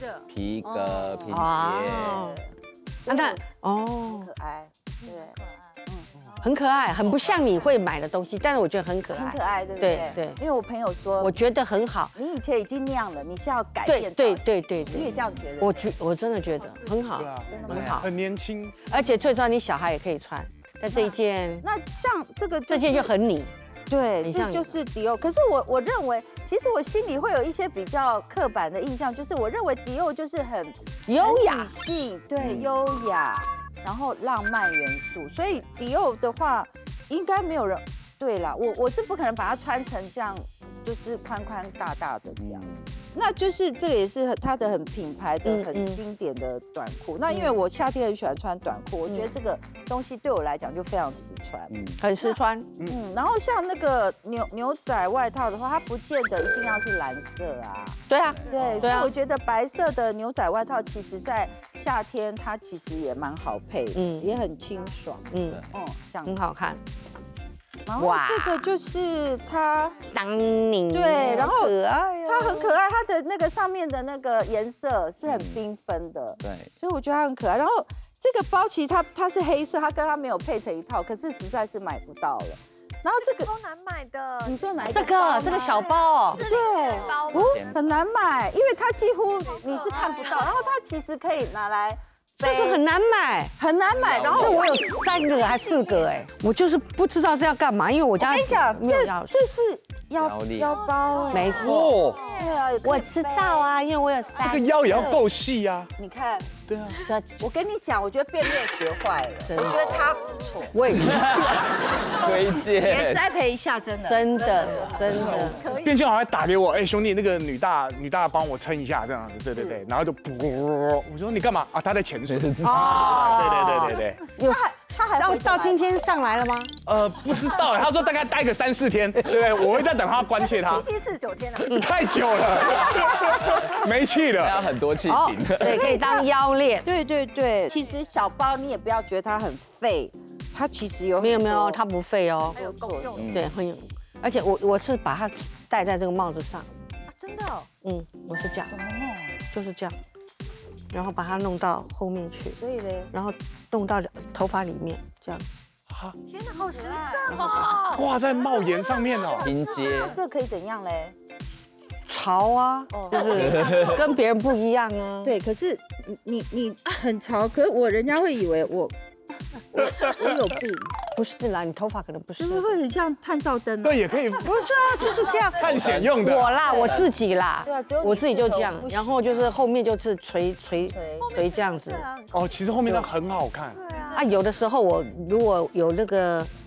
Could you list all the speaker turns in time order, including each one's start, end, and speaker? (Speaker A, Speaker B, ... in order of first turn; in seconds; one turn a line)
Speaker A: 0.3-2.2
Speaker B: 0.7-2.5
Speaker C: 1.3-2.4
Speaker B: 3.1-3.4
Speaker C: 3.1-4.3
Speaker B: 4.0-6.1
Speaker C: 6.4-10.4
Speaker B: 9.1-11.4
Speaker C: 11.2-12.1
Speaker B: 12.2-15.9
Speaker C: 13.8-18.1
Speaker D: 17.1-18.9
Speaker B: 17.4-18.1
Speaker A: 17.7-18.0
Speaker C: 18.9-21.6
Speaker B: 20.9-23.1
Speaker C: 22.7-23.5
Speaker B: 23.9-66.4
Speaker C: 24.2-24.8
Speaker C: 31.1-31.7
Speaker A: 32.4-32.7
Speaker A: 42.4-42.9
Speaker C: 45.5-46.0
Speaker C: 47.3-47.5
Speaker C: 49.1-49.3
Speaker A: 51.7-52.0
Speaker C: 52.0-52.7
Speaker C: 58.1-59.1
Speaker A: 58.3-59.0
Speaker C: 64.0-64.3
Speaker C: 65.3-65.6
Speaker C: 66.2-66.8
Speaker B: 67.9-70.0
Speaker C: 68.0-68.7
Speaker C: 70.1-72.8
Speaker B: 70.9-83.5
Speaker A: 75.2-75.6
Speaker A: 76.4-76.7
Speaker E: 83.2-87.8
Speaker B: 84.4-92.8
Speaker C: 84.9-86.4
Speaker A: 87.3-88.0
Speaker E: 89.5-90.6
Speaker C: 92.4-93.5
Speaker B: 93.6-96.3
Speaker A: 93.9-94.8
Speaker C: 94.3-99.3
Speaker B: 98.2-103.8
Speaker A: 100.2-100.7
Speaker E: 101.1-102.5
Speaker C: 101.3-102.0
Speaker D: 101.4-102.4
Speaker C: 102.8-105.2
Speaker D: 104.4-105.9
Speaker B: 104.8-105.3
Speaker B: 106.0-106.5
Speaker D: 106.7-107.0
Speaker C: 107.0-107.5
Speaker B: 107.4-116.0
Speaker C: 109.5-110.0
Speaker C: 110.7-111.4
Speaker A: 111.0-113.2
Speaker C: 114.0-115.6
Speaker D: 115.1-124.3
Speaker B: 119.5-119.8
Speaker A: 122.3-123.0
Speaker C: 122.6-126.7
Speaker B: 124.3-126.0
Speaker D: 126.9-130.9
Speaker B: 130.3-131.8
Speaker D: 131.6-134.7
Speaker B: 132.4-133.8
Speaker A: 134.4-135.9
Speaker C: 135.1-136.9
Speaker B: 135.6-136.3
Speaker B: 136.8-141.8
Speaker C: 141.2-142.6
Speaker B: 142.5-143.2
Speaker E: 142.6-143.3
Speaker A: 143.2-143.5
Speaker C: 143.3-146.7
Speaker E: 147.1-147.7
Speaker C: 147.8-148.7
Speaker B: 148.6-149.4
Speaker C: 149.5-150.0
Speaker C: 150.9-152.6
Speaker B: 152.6-153.1
Speaker C: 153.1-155.4
Speaker E: 156.3-160.1
Speaker B: 156.8-157.8
Speaker C: 156.8-157.6
Speaker D: 157.3-159.6
Speaker B: 159.3-161.2
Speaker A: 159.4-160.2
Speaker C: 162.1-165.3
Speaker B: 162.9-164.1
Speaker A: 163.3-163.9
Speaker B: 165.2-168.9
Speaker B: 169.7-170.9
Speaker C: 171.2-172.8
Speaker B: 172.4-174.3
Speaker D: 173.8-176.6
Speaker C: 174.4-182.1
Speaker A: 175.6-177.1
Speaker B: 176.6-177.1
Speaker B: 177.6-179.4
Speaker B: 180.9-181.3
Speaker E: 181.2-182.6
Speaker D: 182.3-183.8
Speaker E: 183.7-184.3
Speaker C: 184.1-186.5